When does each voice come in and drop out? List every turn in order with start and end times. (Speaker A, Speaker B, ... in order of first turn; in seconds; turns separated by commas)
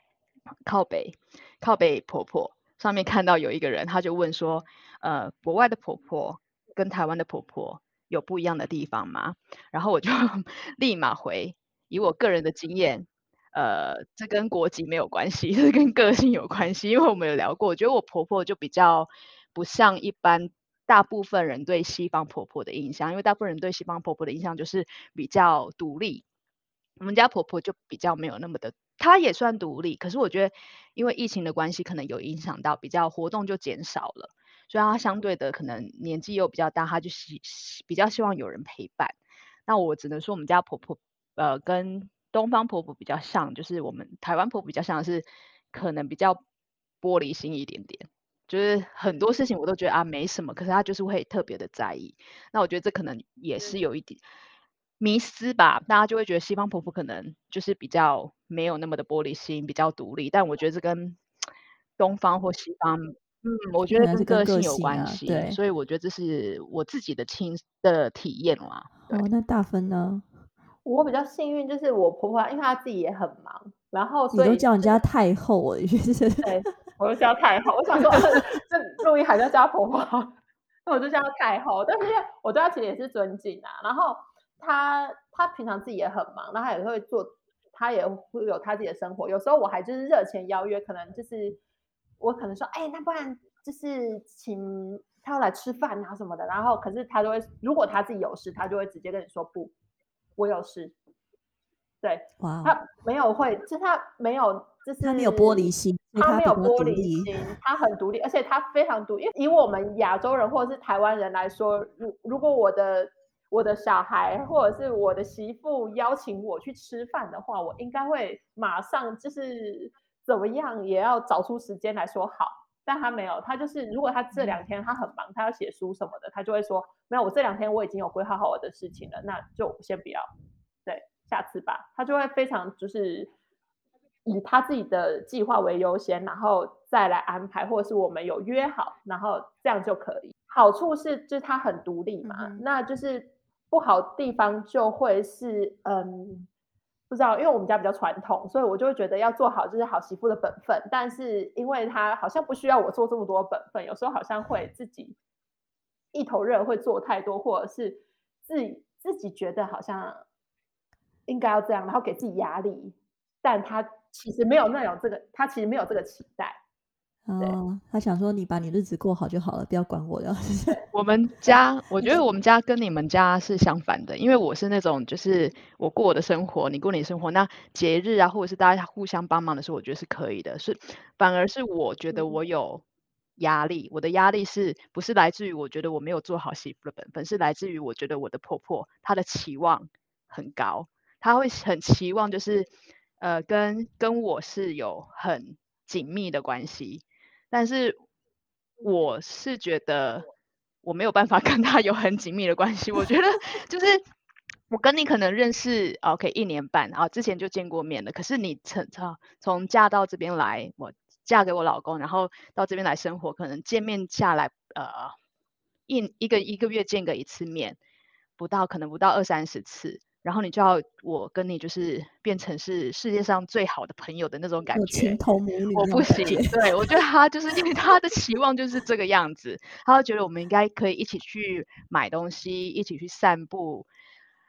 Speaker A: 0.7-26.2, Speaker A: 27.0-39.1, Speaker A: 39.7-46.4, Speaker A: 47.0-54.2, Speaker A: 55.0-61.2, Speaker A: 62.0-69.2, Speaker B: 63.9-65.6, Speaker B: 69.1-70.3, Speaker C: 70.8-75.0, Speaker B: 74.3-76.5, Speaker C: 76.4-80.3, Speaker C: 80.8-91.6, Speaker C: 92.2-99.7, Speaker C: 100.4-100.9, Speaker C: 102.0-130.3, Speaker B: 102.4-102.8, Speaker B: 105.0-107.3, Speaker C: 130.8-133.3, Speaker C: 134.2-146.5, Speaker B: 142.2-142.6, Speaker C: 147.1-155.2, Speaker C: 156.1-160.2, Speaker C: 161.3-166.6, Speaker B: 167.2-170.8, Speaker A: 170.9-182.8, Speaker A: 183.4-192.7, Speaker A: 193.2-198.0, Speaker A: 198.8-200.3, Speaker A: 200.8-204.0, Speaker A: 204.7-215.1, Speaker A: 215.9-217.8, Speaker A: 218.4-225.2, Speaker B: 224.7-227.0, Speaker A: 225.7-233.9